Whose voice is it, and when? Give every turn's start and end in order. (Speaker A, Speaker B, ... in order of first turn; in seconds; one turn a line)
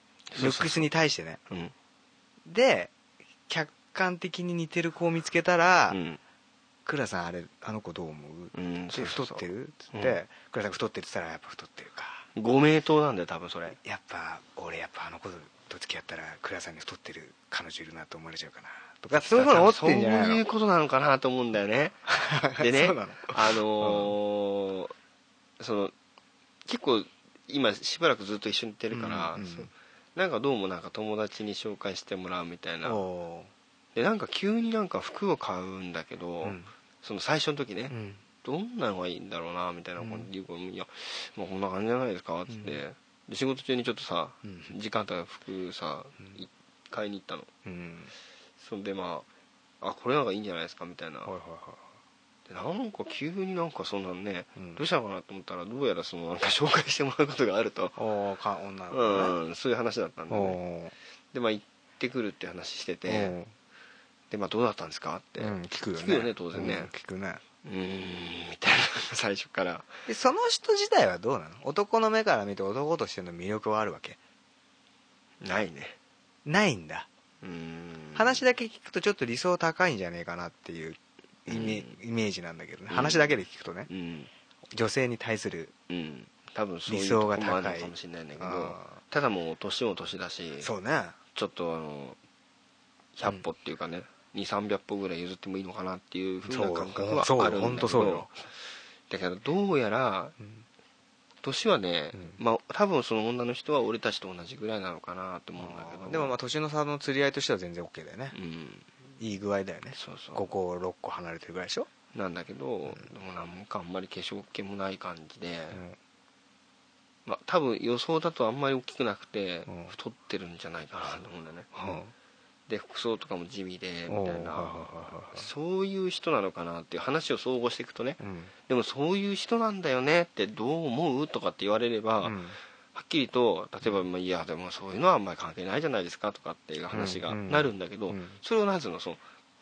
Speaker A: 0.3-0.9
Speaker B: 0.4-1.4
Speaker B: 2.4-2.9
Speaker B: 3.5-6.0
Speaker A: 5.9-6.2
Speaker B: 6.8-12.3
Speaker A: 8.5-10.2
Speaker A: 12.4-13.8
Speaker B: 13.8-20.4
Speaker A: 19.1-22.0
Speaker B: 22.1-24.1
Speaker A: 22.6-24.9
Speaker A: 25.6-25.9
Speaker A: 26.6-33.0
Speaker B: 28.9-29.7
Speaker B: 32.8-33.5
Speaker A: 33.9-47.5
Speaker B: 36.4-36.7
Speaker B: 37.9-38.2
Speaker B: 40.0-40.3
Speaker B: 42.5-42.8
Speaker B: 44.4-44.7
Speaker B: 47.6-48.1
Speaker A: 48.6-49.3
Speaker A: 49.8-51.3
Speaker B: 51.2-51.8
Speaker A: 52.5-58.0
Speaker B: 54.6-54.8
Speaker B: 58.0-59.4
Speaker A: 58.9-60.6
Speaker B: 60.3-60.9
Speaker A: 61.3-63.4
Speaker B: 63.1-63.5
Speaker A: 64.3-66.9
Speaker B: 65.4-67.4
Speaker A: 67.6-69.9
Speaker B: 70.1-74.2
Speaker A: 75.4-76.0
Speaker B: 76.4-77.1
Speaker A: 77.4-78.4
Speaker B: 78.1-83.9
Speaker A: 81.5-82.0
Speaker A: 82.9-83.4
Speaker A: 83.9-84.3
Speaker B: 84.7-85.7
Speaker A: 85.9-90.7
Speaker B: 86.9-89.0
Speaker B: 90.6-91.2
Speaker A: 91.3-92.2
Speaker A: 93.2-98.4
Speaker B: 96.4-98.3
Speaker A: 99.1-100.4
Speaker A: 101.4-106.3
Speaker B: 105.6-108.4
Speaker A: 108.3-108.9
Speaker B: 109.2-111.9
Speaker A: 109.9-110.5
Speaker A: 112.1-115.8
Speaker A: 117.3-121.7
Speaker B: 119.7-119.9
Speaker B: 121.8-122.1
Speaker A: 122.7-132.4
Speaker B: 124.1-125.5
Speaker B: 128.2-128.5
Speaker B: 132.2-132.6
Speaker A: 132.9-139.2
Speaker B: 136.9-138.4